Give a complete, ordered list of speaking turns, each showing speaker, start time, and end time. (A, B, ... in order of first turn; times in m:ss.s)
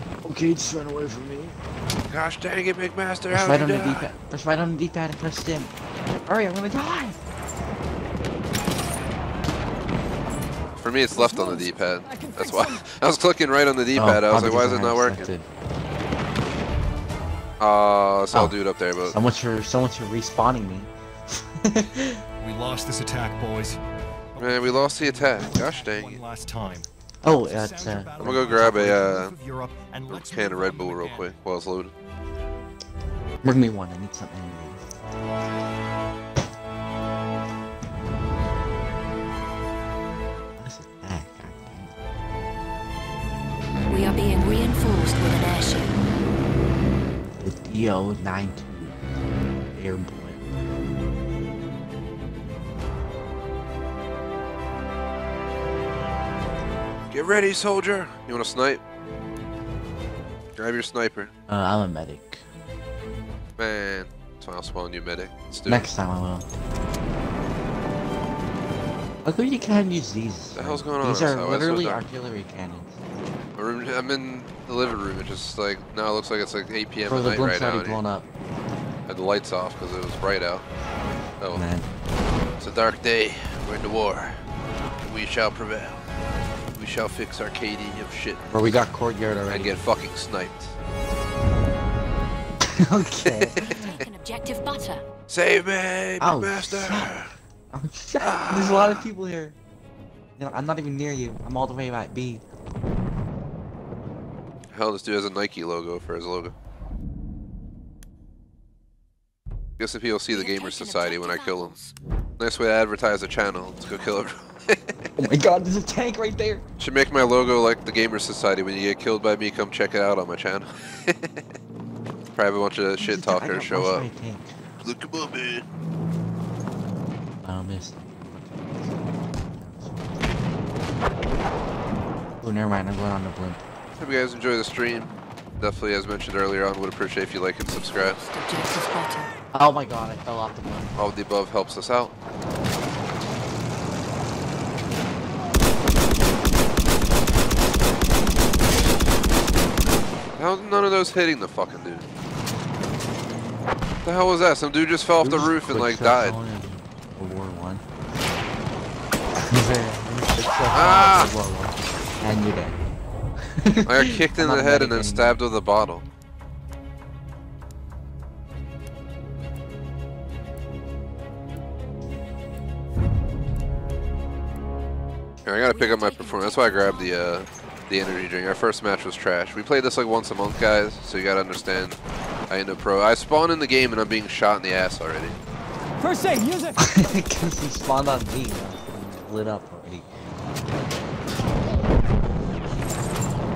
0:00.2-0:01.6 A
0:02.1-0:04.1 B
0:03.3-0:05.7 A
0:06.2-0:07.2 A
0:10.8-0:15.3 B
0:11.1-0:12.8 C
0:13.9-0:15.5 A
0:17.6-0:19.2 B
0:18.3-0:22.2 A
0:22.4-0:23.8 D
0:24.3-0:26.9 D
0:24.4-0:26.2 B
0:27.2-0:28.5 A
0:27.4-0:31.3 D
0:28.2-0:29.3 B
0:30.1-0:31.9 B
0:33.4-0:34.8 A
0:40.6-0:41.9 A
0:43.9-0:46.0 E
0:47.4-0:49.0 A
0:49.7-0:50.4 A
0:57.1-0:58.8 B
1:00.6-1:01.3 B
1:01.5-1:02.4 A
1:03.6-1:05.9 B
1:05.6-1:06.4 A
1:09.2-1:13.0 A
1:10.5-1:12.0 B
1:13.6-1:18.0 B
1:17.1-1:18.3 A
1:19.1-1:20.6 B
1:21.4-1:21.6 B
1:21.5-1:21.9 A
1:22.6-1:24.4 B
1:25.1-1:26.0 B
1:26.7-1:28.8 B
1:28.5-1:29.8 A
1:29.5-1:30.8 B
1:32.6-1:34.0 A
1:33.2-1:33.5 B
1:33.5-1:35.0 E
1:35.3-1:37.3 B
1:36.2-1:39.6 A
1:38.2-1:39.1 B
1:40.4-1:42.4 A
1:44.7-1:46.5 B
1:49.8-1:51.7 B
1:50.3-1:51.9 E
1:52.4-1:55.1 B
1:55.2-1:56.6 A
1:56.8-2:01.5 B
2:02.3-2:04.1 B
2:03.0-2:04.5 A
2:04.8-2:05.6 B
2:07.4-2:10.2 A
2:12.4-2:13.6 A
2:14.0-2:18.2 B
2:17.8-2:19.3 E
2:19.5-2:21.0 A
2:21.0-2:22.1 B
2:30.4-2:32.0 B
2:34.0-2:36.4 B
2:35.2-2:37.8 A
2:39.4-2:42.8 A
2:40.7-2:41.3 B
2:43.4-2:45.4 A
2:43.8-2:46.0 B
2:55.4-3:02.0 B
2:55.7-2:57.4 E
3:02.5-3:05.4 B
3:06.0-3:06.9 C
3:06.8-3:10.1 A